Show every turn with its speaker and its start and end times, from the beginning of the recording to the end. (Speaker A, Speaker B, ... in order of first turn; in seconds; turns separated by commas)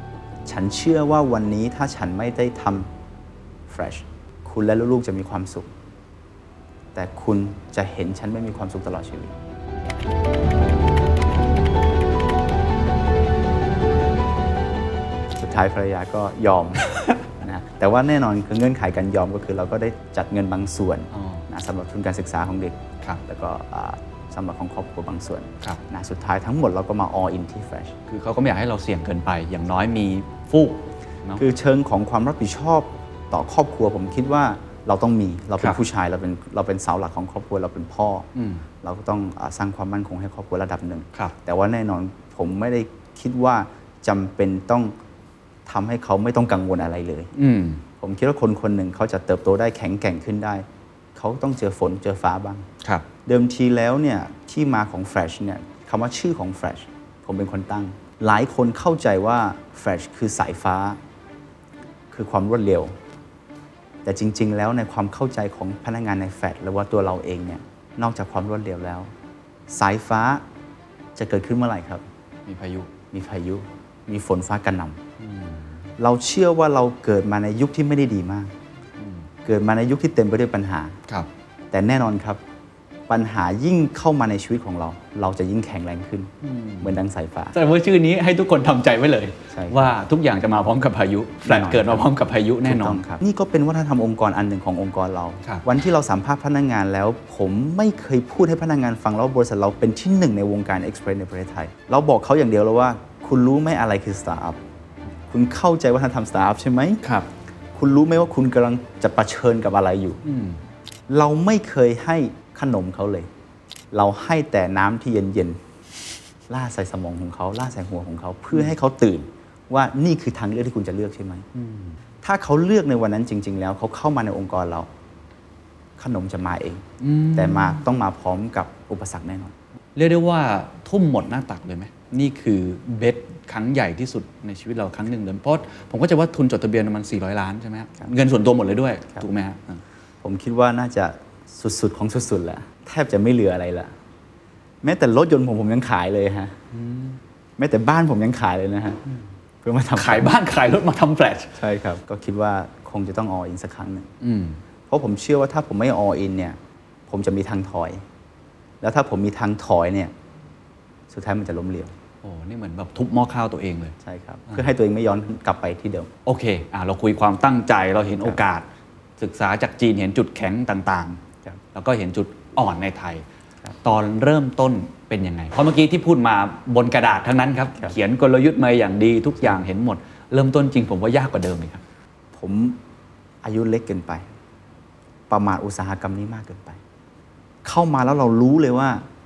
Speaker A: 0.5-2.9, Speaker A: 3.7-5.7, Speaker A: 7.0-9.3, Speaker A: 15.4-27.9, Speaker B: 21.1-21.4, Speaker B: 28.1-31.4, Speaker A: 31.4-38.3, Speaker B: 38.3-38.6, Speaker A: 38.8-44.9, Speaker A: 45.7-47.3, Speaker B: 47.3-47.8, Speaker A: 48.0-50.6, Speaker A: 51.2-52.7, Speaker B: 52.8-53.1, Speaker A: 53.2-61.0, Speaker A: 62.1-62.9, Speaker A: 64.0-69.1, Speaker A: 69.7-70.4, Speaker A: 71.2-72.0, Speaker B: 72.5-72.9, Speaker A: 73.1-75.0, Speaker B: 75.2-75.7, Speaker A: 76.0-78.5, Speaker B: 79.0-79.3, Speaker A: 79.5-81.0, Speaker A: 81.7-82.4, Speaker A: 83.1-87.5, Speaker B: 86.4-86.9, Speaker B: 87.5-93.0, Speaker A: 89.5-89.9, Speaker A: 91.4-92.0, Speaker A: 92.6-104.6, Speaker A: 105.3-107.0, Speaker B: 107.0-107.3, Speaker A: 107.7-110.2, Speaker B: 110.2-110.6, Speaker A: 111.1-113.3, Speaker A: 113.9-115.6, Speaker A: 116.5-121.5, Speaker B: 121.5-122.0, Speaker A: 122.2-124.9, Speaker A: 126.0-129.5, Speaker B: 127.0-127.8, Speaker B: 129.9-139.8, Speaker A: 140.2-143.9, Speaker A: 144.8-146.6, Speaker B: 146.7-147.2, Speaker A: 147.6-149.0, Speaker A: 149.6-150.3, Speaker B: 149.9-151.5, Speaker A: 151.6-154.1, Speaker B: 154.2-154.6, Speaker A: 154.9-156.6, Speaker A: 157.1-158.0, Speaker A: 158.8-160.1, Speaker A: 161.1-161.9, Speaker B: 162.2-164.0, Speaker A: 164.0-166.1, Speaker B: 166.2-168.7, Speaker B: 169.2-171.2, Speaker B: 171.7-173.2, Speaker B: 173.8-181.8, Speaker A: 182.4-182.8, Speaker A: 183.4-184.2, Speaker A: 185.3-186.8, Speaker A: 187.6-189.1